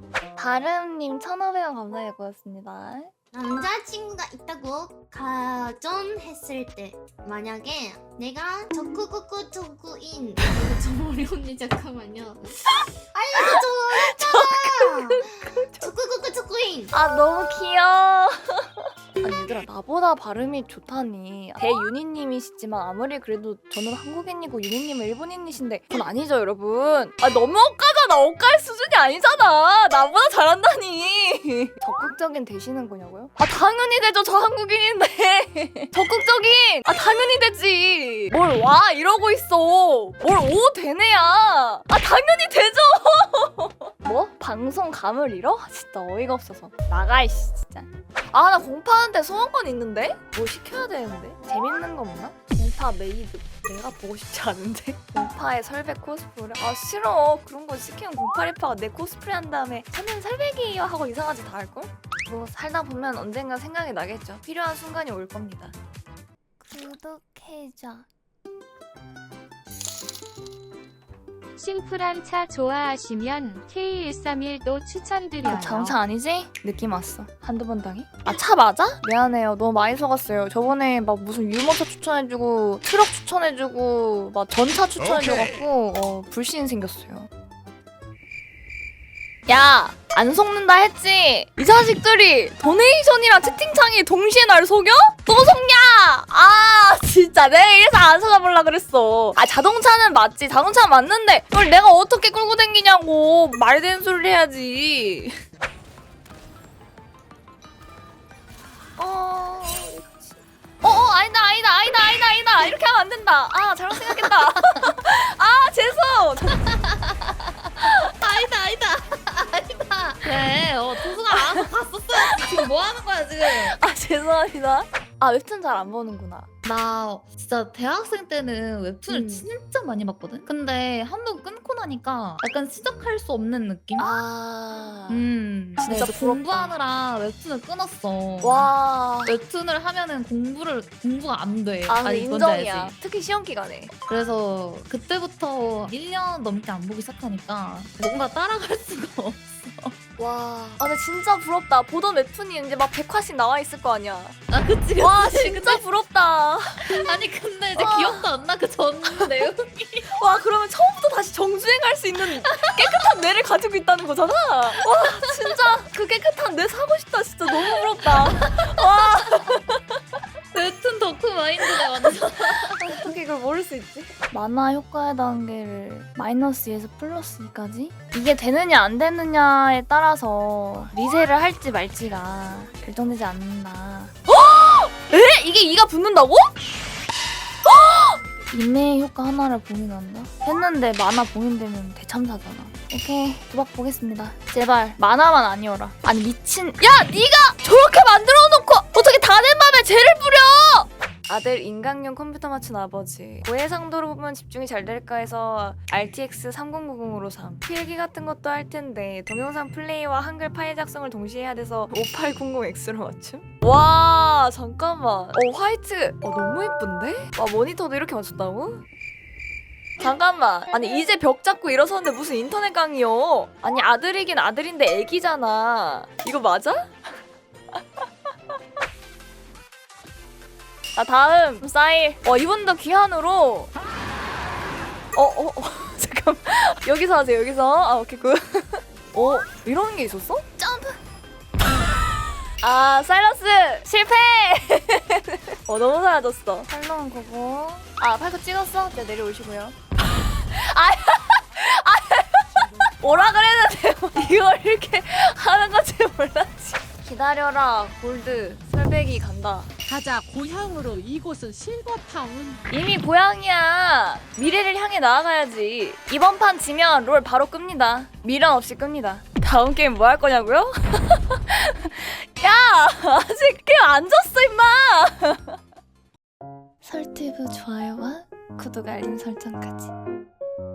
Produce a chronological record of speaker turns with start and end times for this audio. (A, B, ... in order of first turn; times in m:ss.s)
0:00.4-0:03.1 A
0:03.3-0:12.4 B
0:13.1-0:15.2 B
0:13.4-0:15.9 A
0:15.8-0:16.9 B
0:16.9-0:18.6 A
0:19.2-1:05.7 A
1:06.6-1:08.1 A
1:11.6-1:16.0 C
1:15.4-1:27.3 A
1:29.5-1:45.3 A
1:49.0-1:56.6 A
1:56.6-2:03.8 D
2:01.3-2:02.6 A
2:03.4-2:06.5 A
2:06.6-2:14.2 D
2:09.1-2:09.5 A
2:14.0-2:15.3 A
2:15.1-2:18.7 D
2:15.8-2:16.7 A
2:18.4-2:19.4 A
2:19.2-2:22.9 D
2:21.9-2:23.9 A
2:24.1-2:30.0 D
2:30.2-2:34.4 A
2:34.5-2:35.8 D
2:35.0-2:36.9 A
2:36.8-2:40.1 D
2:37.7-2:38.3 A
2:40.1-2:50.0 A
2:42.4-2:43.0 D
2:48.2-2:48.7 D
2:50.5-2:53.1 D
2:51.6-3:06.5 A
3:07.6-3:38.8 A
3:40.0-3:47.1 A
3:47.7-3:48.0 A
3:50.9-3:53.7 A
3:55.1-4:01.0 A
4:02.6-4:19.7 A
4:12.5-4:12.9 E
4:19.8-4:22.6 E
4:22.7-4:35.6 A
4:36.8-4:39.9 A